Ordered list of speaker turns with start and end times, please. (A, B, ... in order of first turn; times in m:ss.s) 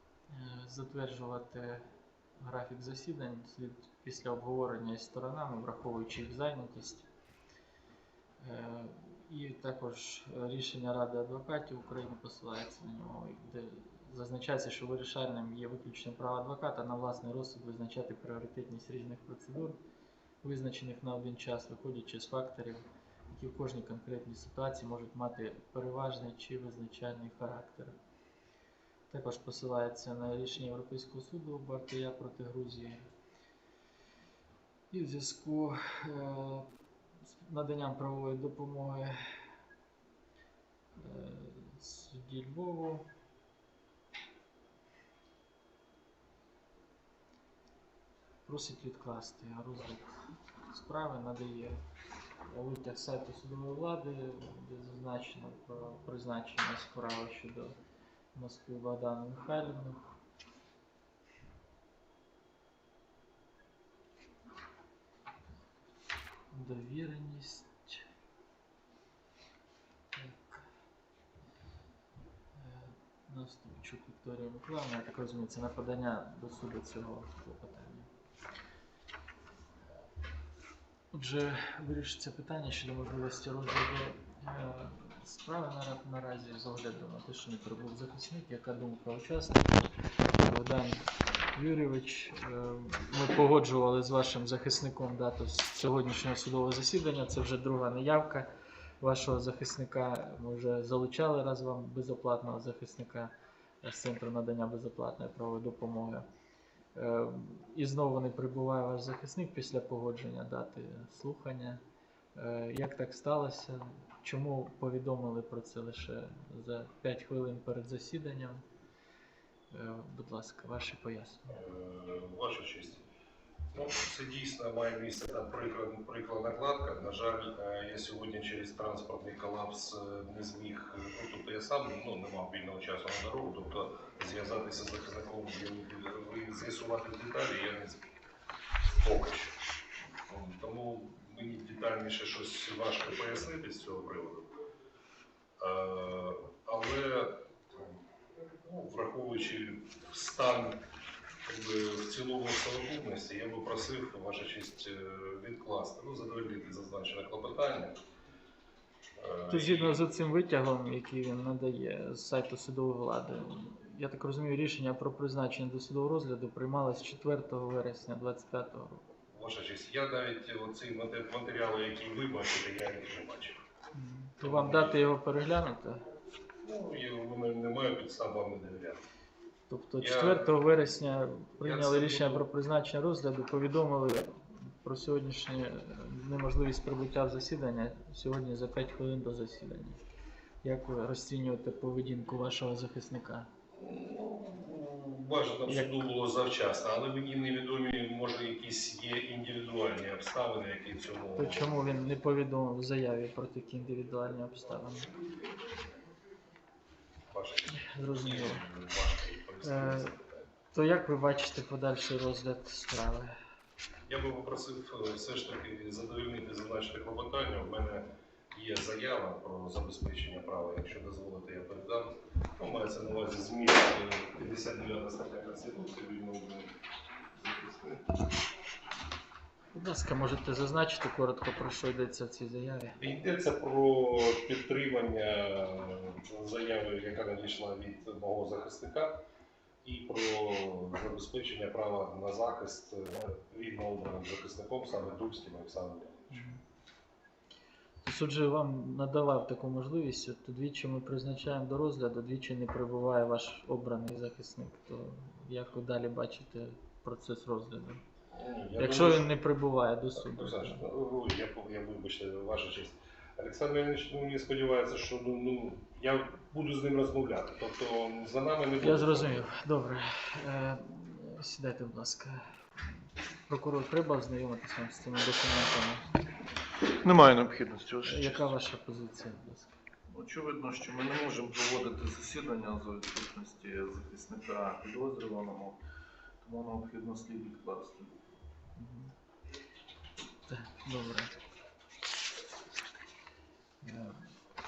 0:00.3-0:07.1 A
0:08.4-0:19.8 A
0:20.4-0:27.9 A
0:29.1-0:33.0 A
0:34.9-0:36.7 A
0:37.2-0:39.4 A
0:40.9-0:43.1 A
0:48.4-0:51.8 A
0:52.4-0:57.8 A
0:58.3-1:00.0 A
1:06.5-1:08.1 A
1:10.1-1:10.7 A
1:12.6-1:18.1 A
1:21.1-1:46.2 A
1:47.0-1:51.8 A
1:52.3-1:58.6 A
1:59.7-2:01.6 A
2:01.5-2:03.0 B
2:03.7-2:18.1 B
2:19.0-2:19.6 B
2:20.3-2:24.5 B
2:25.6-2:28.0 B
2:28.6-2:30.8 B
2:31.4-2:38.0 B
2:39.2-2:40.0 B
2:39.5-2:49.1 A
2:49.3-2:53.6 B
2:53.9-2:56.0 A
2:54.4-2:55.1 B
2:56.6-2:59.0 B
2:59.7-3:10.0 A
3:00.0-3:00.6 B
3:01.6-3:02.5 B
3:10.6-3:13.5 A
3:13.8-3:21.9 B
3:15.7-3:16.0 A
3:21.4-3:25.2 A
3:27.3-3:30.5 B
3:27.7-3:28.7 A
3:29.6-3:30.1 A
3:30.7-3:33.4 A
3:34.1-3:46.7 B
3:47.3-3:48.2 B
3:49.7-3:53.0 A
3:53.0-3:59.2 B
3:59.8-4:06.4 B
4:06.3-4:06.6 A
4:08.0-4:18.0 A
4:18.3-4:19.3 B
4:18.8-4:20.8 A
4:20.2-4:29.5 B
4:28.8-4:36.2 A
4:37.0-4:38.5 C
4:38.0-4:39.8 A
4:40.1-4:45.8 C
4:46.4-4:48.1 C
4:48.8-4:49.1 A
4:50.5-4:51.4 A
4:53.8-4:54.3 A